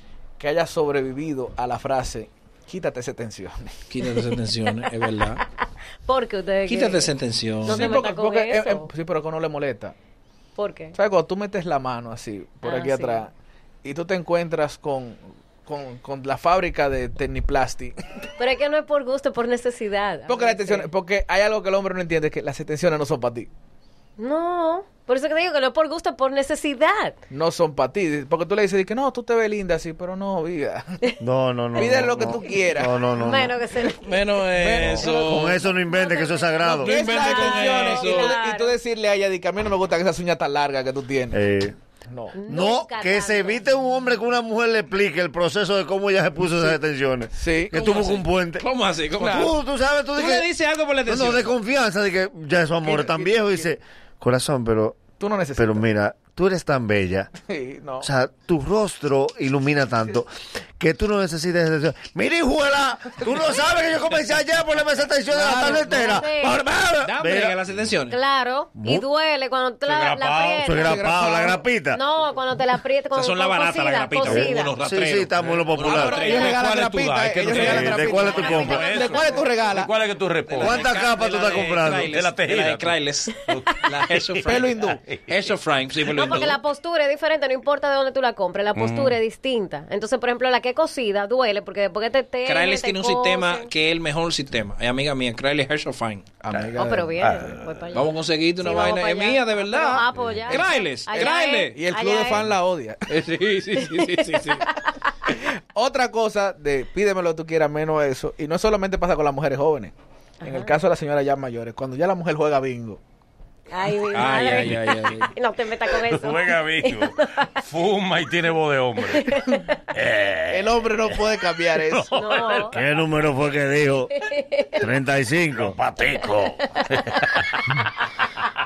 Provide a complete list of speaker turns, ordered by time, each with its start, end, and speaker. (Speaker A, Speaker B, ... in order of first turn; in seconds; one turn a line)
Speaker A: 0.4-3.8
Speaker B: 3.9-5.4
Speaker C: 6.0-7.1
Speaker B: 6.7-8.0
Speaker A: 7.6-9.9
Speaker C: 7.7-8.9
Speaker C: 10.6-10.9
Speaker A: 10.9-13.3
Speaker C: 12.6-13.1
Speaker A: 13.8-18.0
Speaker C: 18.4-20.8
Speaker A: 20.3-23.5
Speaker C: 24.2-27.1
Speaker A: 27.3-31.1
Speaker D: 31.2-33.6
Speaker A: 31.7-33.8
Speaker C: 33.1-33.9
Speaker B: 33.8-35.6
Speaker A: 34.5-35.5
Speaker D: 34.9-37.0
Speaker C: 35.9-36.5
Speaker B: 36.6-38.4
Speaker A: 36.7-41.4
Speaker C: 37.2-38.7
Speaker D: 41.3-41.8
Speaker A: 42.1-42.4
Speaker C: 42.3-43.6
Speaker D: 42.5-48.6
Speaker A: 46.4-46.7
Speaker A: 47.3-47.8
Speaker B: 47.7-49.5
Speaker A: 49.2-49.5
Speaker D: 49.2-50.5
Speaker B: 50.1-51.5
Speaker D: 51.0-55.0
Speaker A: 52.8-53.7
Speaker A: 55.2-55.9
Speaker D: 55.6-57.3
Speaker A: 57.5-58.1
Speaker D: 58.0-67.6
Speaker A: 63.2-63.5
Speaker A: 65.3-66.2
Speaker C: 65.9-66.5
Speaker B: 67.0-68.2
Speaker C: 68.1-70.9
Speaker D: 68.8-69.0
Speaker E: 69.8-70.9
Speaker D: 70.6-72.0
Speaker A: 70.7-71.6
Speaker C: 71.9-74.7
Speaker B: 73.1-79.4
Speaker D: 74.2-76.4
Speaker A: 75.9-79.9
Speaker E: 76.2-80.8
Speaker C: 76.2-76.5
Speaker D: 77.5-78.9
Speaker C: 78.3-79.4
Speaker B: 80.5-86.6
Speaker D: 80.6-82.2
Speaker E: 82.1-85.5
Speaker A: 84.4-85.0
Speaker E: 86.1-86.4
Speaker C: 86.2-93.7
Speaker E: 88.7-89.2
Speaker B: 92.4-96.2
Speaker A: 96.4-97.4
Speaker E: 96.5-98.1
Speaker C: 96.8-98.0
Speaker B: 97.9-101.8
Speaker C: 98.6-102.4
Speaker E: 99.8-101.0
Speaker A: 101.1-103.0
Speaker B: 103.1-104.7
Speaker A: 105.3-113.0
Speaker C: 113.7-117.5
Speaker E: 113.9-122.8
Speaker B: 114.1-115.3
Speaker C: 119.0-119.4
Speaker A: 120.5-122.4
Speaker C: 122.1-122.8
Speaker D: 122.7-124.1
Speaker C: 124.2-124.7
Speaker D: 124.8-125.8
Speaker E: 125.5-127.9
Speaker C: 126.2-126.8